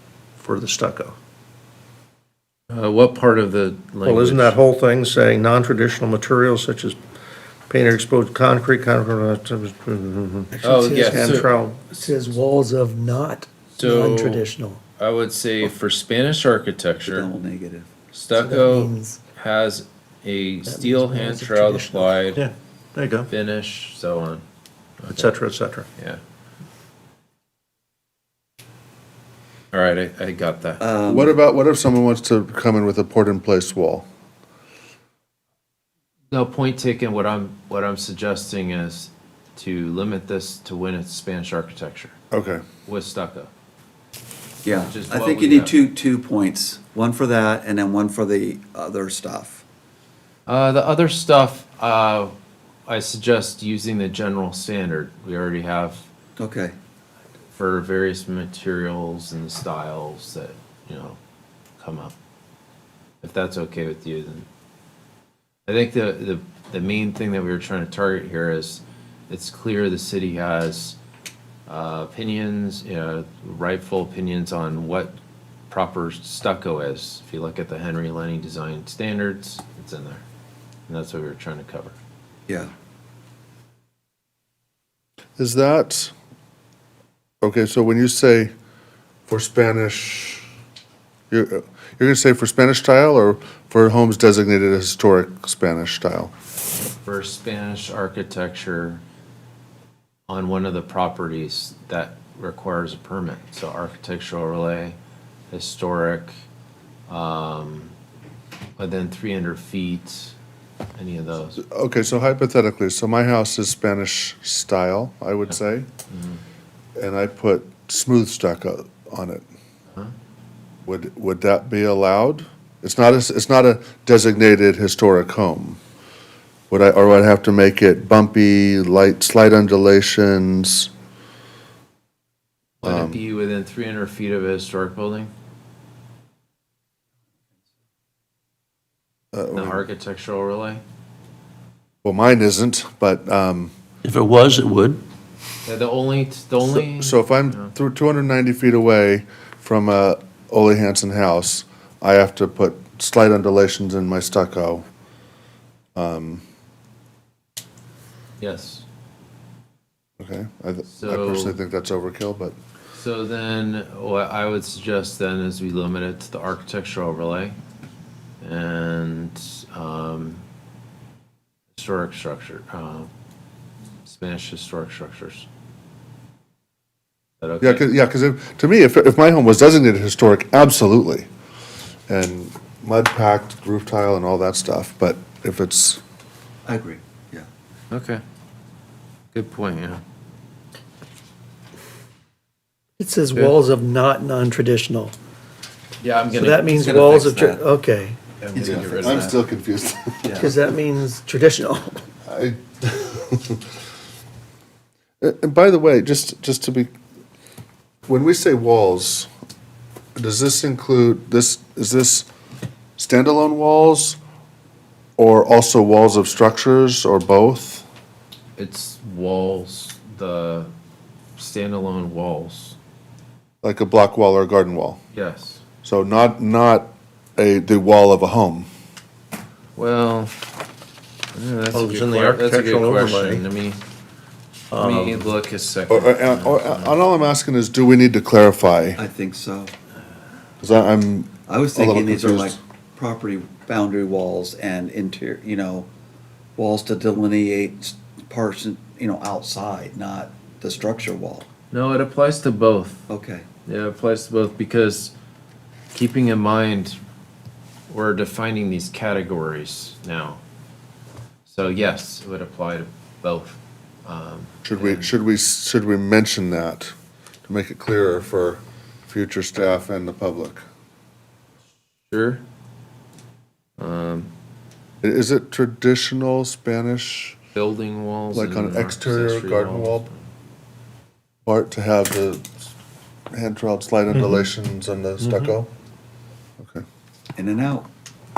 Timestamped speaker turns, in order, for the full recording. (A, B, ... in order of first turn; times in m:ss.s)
0:00.4-0:01.2 A
0:02.7-0:04.6 B
0:04.0-0:07.0 A
0:07.7-0:12.0 A
0:10.5-0:11.4 C
0:10.6-0:12.1 B
0:12.0-0:14.8 D
0:13.8-0:17.3 B
0:17.1-0:17.9 C
0:18.1-0:22.4 B
0:18.4-0:19.2 D
0:20.7-0:22.1 D
0:22.4-0:23.3 A
0:23.3-0:24.4 B
0:25.0-0:25.9 A
0:25.0-0:25.3 B
0:29.7-0:30.8 B
0:30.8-0:31.4 C
0:31.1-0:34.0 E
0:36.3-0:42.2 B
0:42.3-0:42.6 E
0:42.9-0:43.5 B
0:44.6-0:49.6 C
0:44.7-0:45.8 B
0:50.5-0:52.3 B
0:52.9-0:56.1 B
0:56.4-0:56.7 C
0:57.6-1:01.2 B
1:01.8-1:02.1 B
1:03.2-1:04.5 B
1:05.7-1:11.0 B
1:11.7-1:15.1 B
1:15.7-1:20.2 B
1:20.9-1:21.9 B
1:25.4-1:26.1 E
1:27.4-1:28.5 E
1:29.3-1:30.5 E
1:31.3-1:36.3 E
1:37.0-1:39.0 B
1:40.3-1:45.0 B
1:45.5-1:46.3 B
1:47.1-1:47.9 B
1:48.8-1:50.3 B
1:51.0-1:51.6 B
1:51.6-1:55.9 E
1:56.1-1:56.4 B
1:57.0-1:59.4 E
2:00.9-2:05.8 E
2:06.7-2:10.9 E
2:12.8-2:15.3 B
2:12.8-2:13.2 E
2:19.3-2:19.8 E
2:19.5-2:20.8 B
2:22.0-2:23.7 E
2:24.0-2:25.0 A
2:25.7-2:27.7 B
2:26.9-2:34.8 E
2:36.0-2:36.4 E
2:38.4-2:38.8 B
2:40.2-2:42.6 E
2:40.9-2:41.6 B
2:43.0-2:47.6 B
2:48.4-2:50.4 B
2:51.7-2:53.1 B
2:54.0-2:55.5 B
2:57.4-2:57.9 B
2:57.6-3:01.3 E
3:02.1-3:06.0 E
3:06.7-3:07.5 C
3:07.9-3:08.2 B
3:09.3-3:10.0 B
3:13.0-3:15.1 D
3:16.0-3:17.7 B
3:16.4-3:17.2 A
3:17.2-3:18.2 D
3:18.4-3:19.5 B
3:18.6-3:20.5 E
3:18.6-3:19.1 C
3:20.2-3:20.5 C
3:20.4-3:22.0 D
3:22.3-3:23.6 E
3:25.2-3:26.9 E
3:28.1-3:29.3 E
3:30.2-3:32.3 E
3:33.0-3:34.2 E
3:35.2-3:37.8 E
3:38.6-3:40.7 B
3:41.4-3:42.8 B
3:43.6-3:45.0 E
3:45.1-3:45.6 B
3:45.8-3:48.7 E
3:49.8-3:50.4 B
3:51.3-3:53.8 B
3:51.7-3:53.4 A
3:54.7-3:55.3 A
3:54.7-3:57.0 B
3:55.9-3:59.0 E
3:59.0-3:59.7 C
4:00.6-4:02.6 E
4:01.5-4:05.9 C
4:06.6-4:11.5 C
4:11.7-4:13.1 B
4:13.1-4:13.4 C
4:13.7-4:15.1 B
4:15.9-4:17.0 B
4:17.9-4:20.4 B
4:21.5-4:25.1 B
4:24.6-4:26.9 E
4:27.5-4:30.6 E
4:32.1-4:32.4 B
4:33.8-4:34.3 B
4:35.0-4:37.4 E
4:37.6-4:40.2 B
4:38.3-4:40.1 E
4:41.5-4:42.5 E
4:43.3-4:45.7 E
4:44.1-4:44.5 A
4:45.2-4:45.5 A
4:47.4-4:47.9 C